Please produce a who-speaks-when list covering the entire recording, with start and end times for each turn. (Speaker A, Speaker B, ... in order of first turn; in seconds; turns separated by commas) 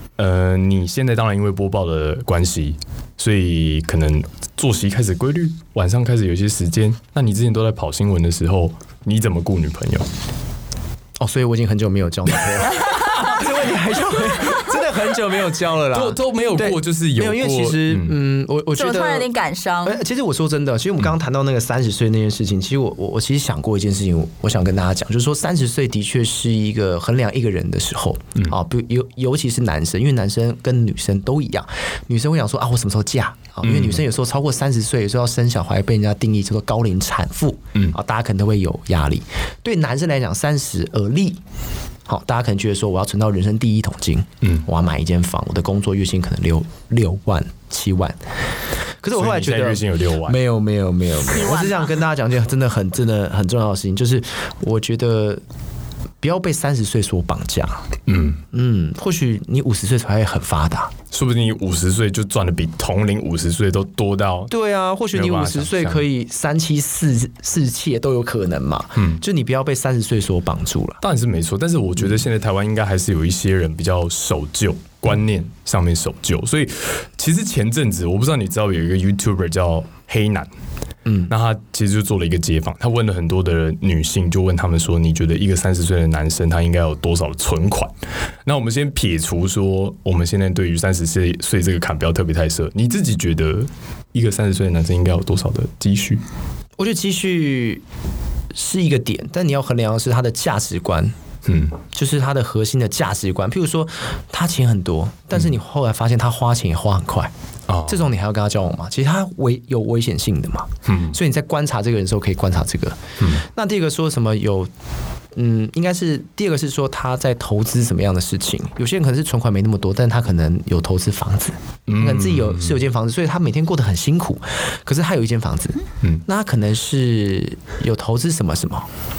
Speaker A: 0.2-10.1, Speaker B: 11.2-19.3, Speaker A: 12.8-13.4, Speaker A: 15.9-18.2, Speaker C: 18.8-20.0, Speaker B: 19.9-41.4, Speaker A: 33.6-34.0, Speaker B: 42.1-48.2, Speaker B: 49.0-55.4, Speaker A: 49.1-50.4, Speaker C: 51.2-52.0, Speaker B: 56.2-57.9, Speaker A: 58.1-58.4, Speaker B: 58.5-60.9, Speaker A: 61.1-64.5, Speaker B: 64.5-71.0, Speaker A: 65.1-66.0, Speaker A: 69.0-69.2, Speaker A: 71.0-80.5, Speaker B: 81.1-81.3, Speaker A: 81.3-87.9, Speaker A: 88.5-96.2, Speaker B: 96.8-97.8, Speaker B: 98.5-101.1, Speaker A: 101.5-101.8, Speaker B: 101.9-107.3, Speaker A: 107.7-108.1, Speaker B: 107.9-114.7, Speaker A: 110.9-111.2, Speaker B: 115.3-128.9, Speaker A: 121.9-122.8